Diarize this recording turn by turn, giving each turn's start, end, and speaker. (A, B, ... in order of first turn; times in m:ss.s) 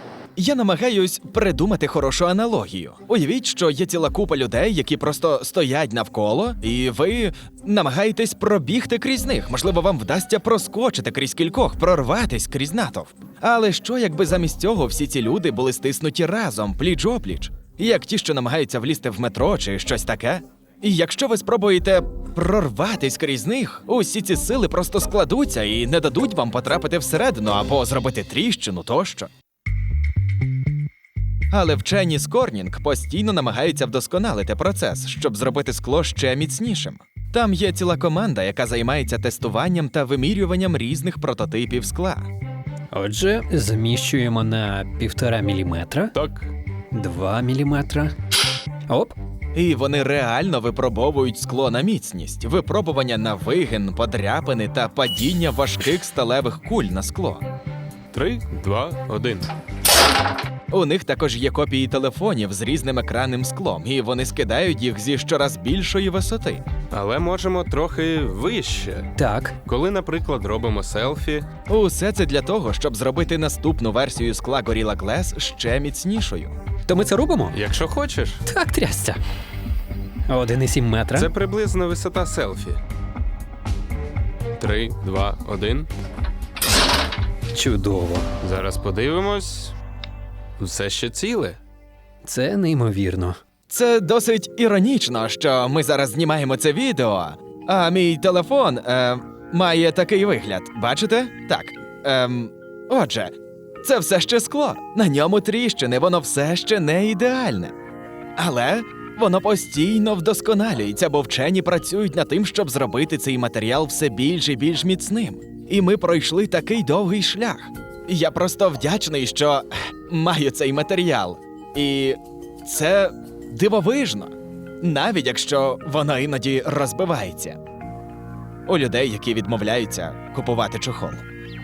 0:00.4-0:29.3 A
0:31.5-0:42.3 A
0:42.9-0:46.1 B
0:46.1-0:46.5 C
0:46.9-0:48.1 B
0:48.9-0:49.1 B
0:49.5-0:57.5 A
0:58.1-0:59.5 C
1:00.7-1:06.6 A
1:06.9-1:09.1 C
1:09.2-1:09.6 B
1:09.6-1:11.4 C
1:11.7-1:16.5 A
1:16.9-1:17.6 B
1:17.5-1:18.4 C
1:18.4-1:19.2 B
1:20.3-1:21.3 B
1:21.2-1:22.8 C
1:24.6-1:25.9 C
1:27.5-1:28.3 B
1:28.4-1:29.7 C
1:30.6-1:31.6 C
1:32.2-1:33.4 B
1:33.7-1:47.7 A
1:48.4-2:07.6 A
2:08.6-2:11.2 A